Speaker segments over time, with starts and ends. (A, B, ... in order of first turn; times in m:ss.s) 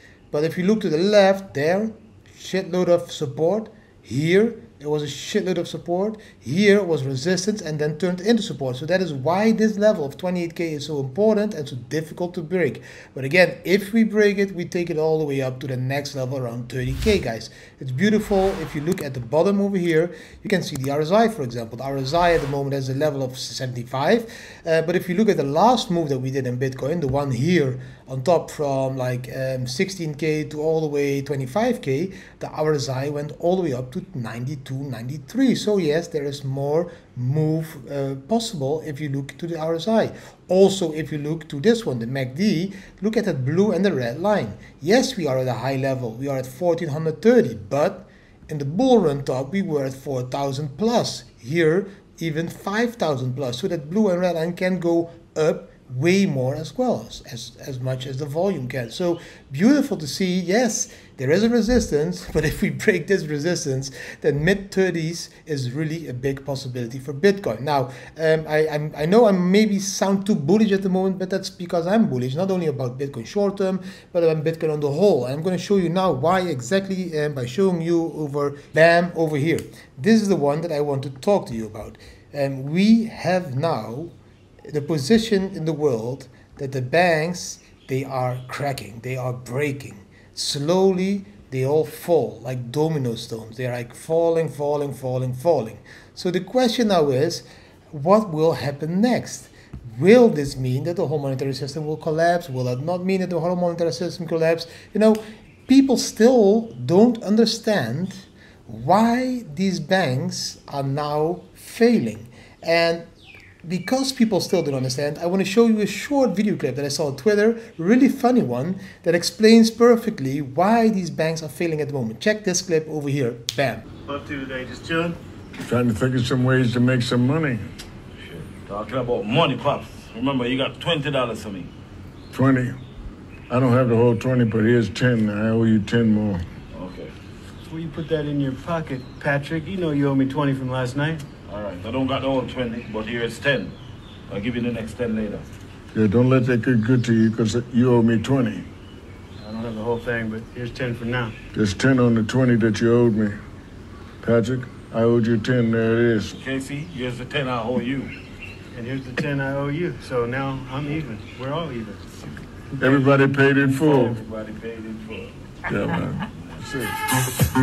0:00.3-1:24.1 A
1:24.7-1:53.1 A
1:53.6-2:03.9 A
2:04.1-2:05.2 B
2:05.6-2:07.7 C
2:08.2-2:11.7 D
2:12.3-2:12.8 C
2:13.5-2:16.4 C
2:16.7-2:17.1 D
2:17.7-2:21.3 B
2:21.5-2:23.7 D
2:24.3-2:25.5 D
2:25.9-2:28.7 C
2:29.4-2:31.4 B
2:31.5-2:33.4 C
2:34.2-2:36.4 C
2:36.3-2:38.1 D
2:38.7-2:42.1 B
2:42.8-2:44.2 C
2:42.8-2:45.4 D
2:45.7-2:47.0 C
2:46.3-2:46.6 D